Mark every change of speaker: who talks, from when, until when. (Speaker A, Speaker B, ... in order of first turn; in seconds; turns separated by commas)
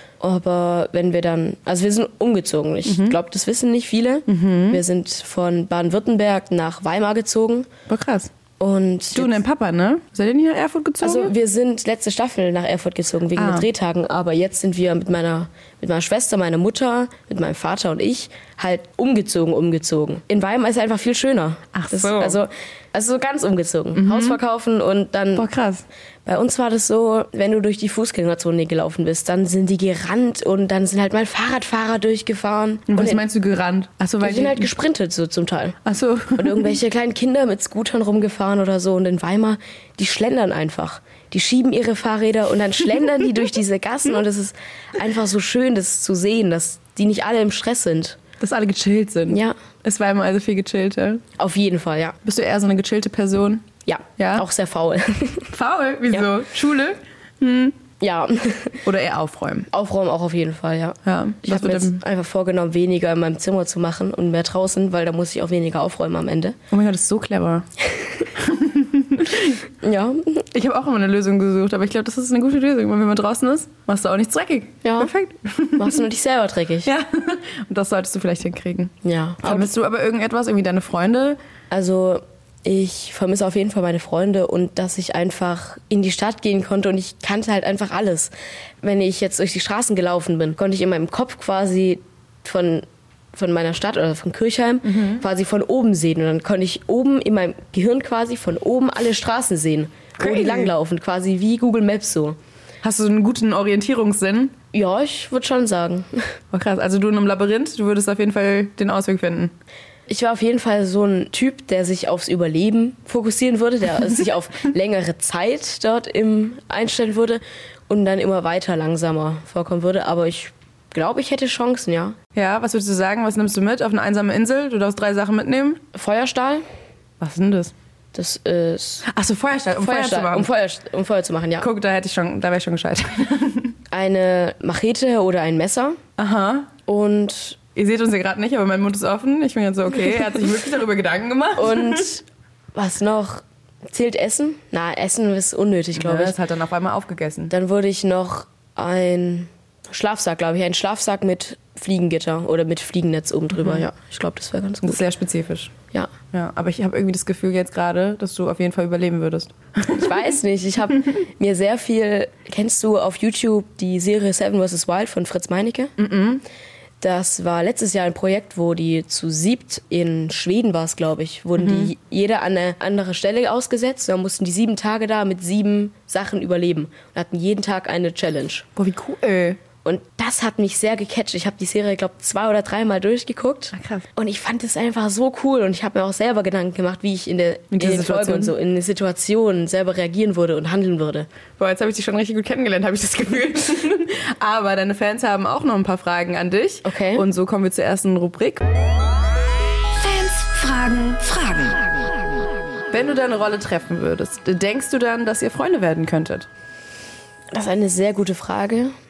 Speaker A: 0.2-7.7, Speaker B: 2.9-3.2, Speaker B: 4.3-4.8, Speaker B: 7.9-8.3, Speaker A: 8.6-9.4, Speaker B: 9.2-11.3, Speaker A: 11.0-25.5, Speaker B: 13.3-13.7, Speaker B: 21.7-22.4, Speaker B: 23.9-24.4, Speaker B: 25.4-25.9, Speaker A: 26.2-33.2, Speaker B: 32.9-34.7, Speaker A: 34.2-35.8, Speaker B: 35.8-36.8, Speaker A: 36.4-48.2, Speaker B: 48.4-51.2, Speaker A: 49.3-49.6, Speaker A: 51.4-52.2, Speaker B: 52.2-53.6, Speaker A: 53.9-55.5, Speaker B: 54.2-54.5, Speaker B: 55.5-57.8, Speaker A: 58.0-58.9, Speaker B: 58.8-59.7, Speaker A: 59.7-66.6, Speaker B: 61.0-62.0, Speaker B: 66.7-67.7, Speaker B: 68.4-69.6, Speaker A: 69.8-70.4, Speaker B: 70.5-76.0, Speaker A: 74.8-75.1, Speaker A: 75.8-76.9, Speaker B: 76.8-81.4, Speaker A: 79.0-79.7, Speaker A: 81.7-102.4, Speaker B: 94.8-95.2, Speaker B: 100.2-100.7, Speaker B: 102.8-104.5, Speaker A: 104.7-106.2, Speaker B: 106.5-109.5, Speaker A: 110.1-122.2, Speaker B: 122.3-125.8, Speaker A: 125.9-126.6, Speaker B: 127.2-127.7, Speaker A: 128.1-129.1, Speaker B: 129.1-130.5, Speaker A: 129.7-131.7, Speaker B: 131.6-133.8, Speaker A: 133.9-136.0, Speaker B: 136.2-136.7, Speaker A: 136.9-137.6, Speaker B: 137.8-142.1, Speaker A: 141.6-142.2, Speaker A: 142.7-146.4, Speaker B: 145.9-147.5, Speaker A: 147.5-155.0, Speaker B: 154.8-155.7, Speaker B: 156.3-160.3, Speaker A: 159.9-165.9, Speaker B: 166.0-166.4, Speaker A: 167.0-178.7, Speaker B: 171.6-171.9, Speaker B: 178.8-179.6, Speaker A: 179.8-191.3, Speaker B: 183.7-184.1, Speaker B: 187.7-188.5, Speaker B: 191.6-198.6, Speaker A: 196.8-197.2, Speaker C: 200.0-202.1, Speaker B: 202.9-206.5, Speaker A: 207.5-208.9